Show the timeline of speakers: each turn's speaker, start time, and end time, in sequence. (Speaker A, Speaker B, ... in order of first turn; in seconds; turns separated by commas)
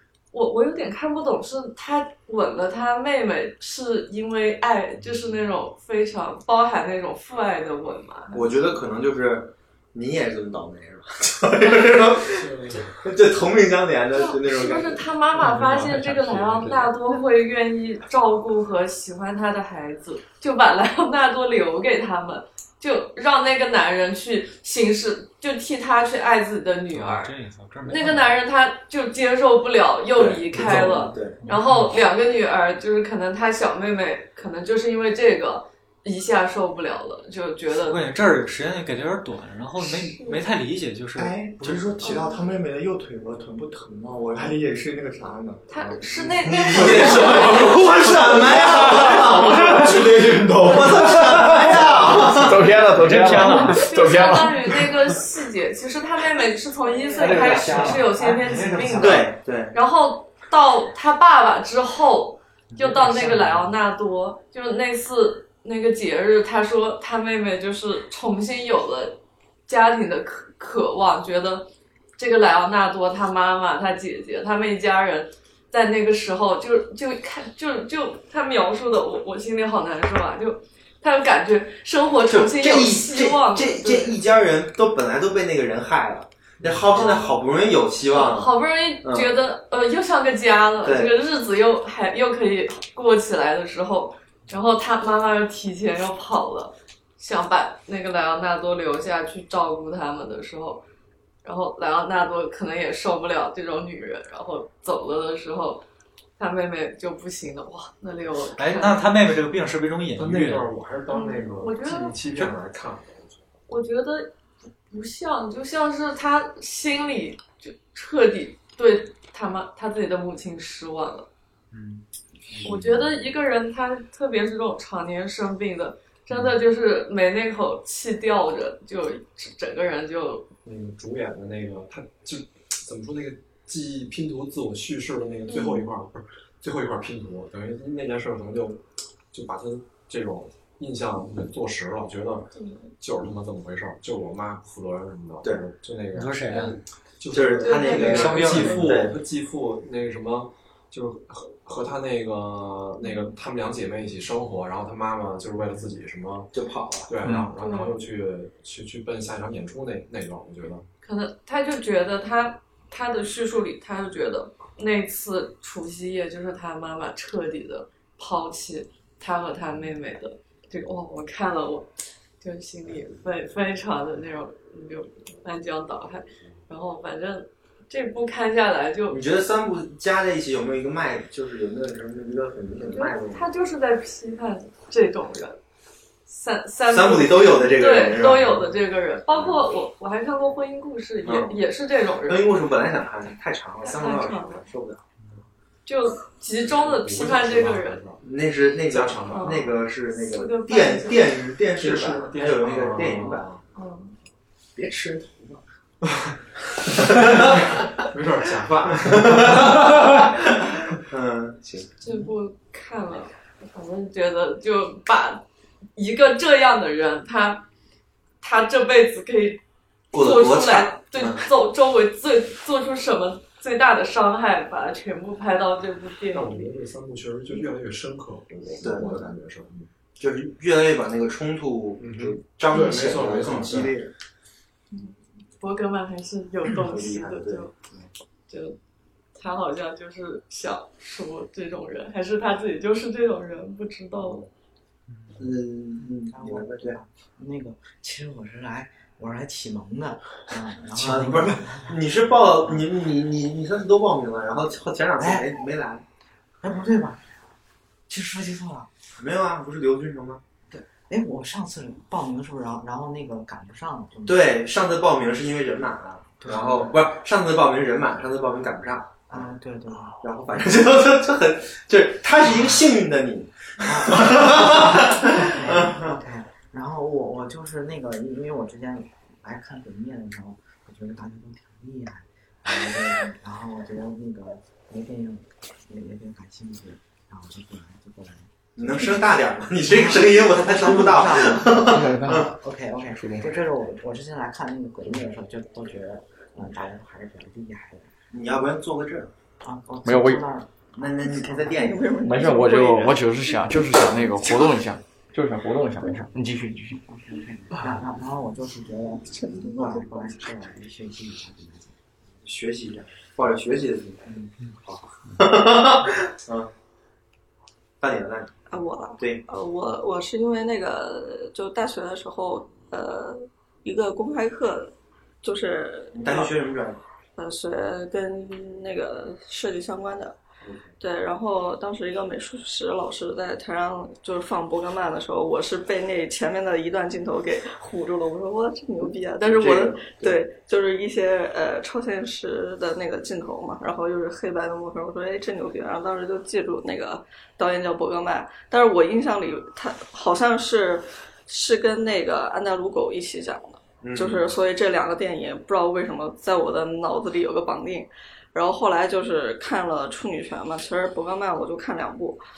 Speaker A: 0.3-8.4, Speaker B: 8.3-15.1, Speaker C: 12.2-12.9, Speaker A: 14.1-27.3, Speaker D: 15.4-16.7, Speaker C: 16.5-16.9, Speaker D: 26.9-28.3, Speaker A: 27.8-38.1, Speaker B: 30.1-31.4, Speaker D: 30.6-31.9, Speaker D: 37.7-42.1, Speaker A: 39.8-40.4, Speaker E: 41.1-46.6, Speaker A: 42.0-42.5, Speaker A: 45.7-48.6, Speaker B: 46.4-52.7, Speaker C: 47.0-47.5, Speaker C: 49.0-51.1, Speaker F: 52.2-54.9, Speaker D: 52.9-54.2, Speaker A: 53.4-84.2, Speaker B: 57.2-58.1, Speaker G: 57.2-59.3, Speaker B: 59.0-59.7, Speaker D: 62.7-63.7, Speaker B: 82.3-89.3, Speaker A: 86.9-87.4, Speaker A: 88.1-100.8, Speaker B: 90.8-91.1, Speaker A: 101.4-105.8, Speaker A: 106.4-109.1, Speaker D: 108.6-110.7, Speaker C: 110.2-113.4, Speaker A: 111.1-112.2, Speaker A: 113.7-114.3, Speaker A: 114.9-121.3, Speaker D: 121.7-122.0, Speaker A: 122.6-130.5, Speaker C: 130.6-138.8, Speaker A: 135.5-135.8, Speaker C: 139.3-156.5, Speaker A: 142.5-142.9, Speaker D: 146.1-146.8, Speaker A: 146.5-146.8, Speaker B: 147.3-149.2, Speaker A: 147.6-148.7, Speaker D: 147.8-148.9, Speaker A: 153.0-153.3, Speaker B: 156.5-157.1, Speaker C: 157.1-160.8, Speaker A: 157.6-158.0, Speaker A: 161.0-171.9, Speaker A: 172.4-179.2, Speaker B: 179.1-183.5, Speaker A: 182.8-185.6, Speaker A: 186.3-192.5, Speaker B: 186.9-188.8, Speaker B: 191.2-191.6, Speaker B: 192.2-195.0, Speaker A: 193.8-194.7, Speaker A: 195.8-198.0, Speaker C: 196.6-198.2, Speaker B: 198.2-203.5, Speaker C: 198.8-199.7, Speaker A: 199.3-201.3, Speaker C: 201.8-203.6, Speaker A: 203.7-204.1, Speaker B: 204.8-205.6, Speaker B: 207.0-207.4, Speaker C: 207.1-210.2, Speaker B: 209.0-211.9, Speaker A: 212.0-215.4, Speaker A: 215.9-217.6, Speaker A: 218.4-219.6, Speaker B: 220.1-221.4, Speaker A: 220.2-226.7, Speaker C: 226.3-229.9, Speaker B: 228.8-229.3, Speaker B: 230.2-234.1, Speaker C: 232.0-233.9, Speaker A: 234.9-237.7, Speaker B: 236.7-238.1, Speaker A: 238.5-238.8, Speaker A: 239.3-244.4, Speaker B: 244.2-244.5, Speaker B: 245.4-247.0, Speaker G: 246.1-251.9, Speaker B: 251.0-256.0, Speaker G: 255.2-255.5, Speaker G: 256.6-257.2, Speaker G: 258.1-258.9, Speaker B: 259.2-260.4, Speaker G: 260.7-264.5, Speaker B: 264.2-269.5, Speaker G: 266.4-266.9, Speaker G: 269.3-270.2, Speaker B: 270.1-276.2, Speaker G: 273.8-289.1, Speaker B: 288.8-292.5, Speaker G: 289.8-298.1, Speaker F: 291.9-292.5, Speaker B: 298.3-299.3, Speaker G: 299.6-300.7, Speaker F: 300.0-300.5, Speaker B: 300.9-302.2, Speaker H: 301.2-303.6, Speaker G: 301.3-301.8, Speaker F: 302.2-307.0, Speaker G: 307.1-311.9, Speaker H: 309.3-309.9, Speaker B: 312.4-316.7, Speaker B: 318.0-318.6, Speaker H: 318.7-326.5, Speaker B: 319.2-319.4, Speaker B: 326.1-327.0, Speaker H: 327.4-330.4, Speaker B: 330.6-330.9, Speaker H: 331.0-362.4, Speaker B: 339.4-340.4, Speaker B: 354.0-354.5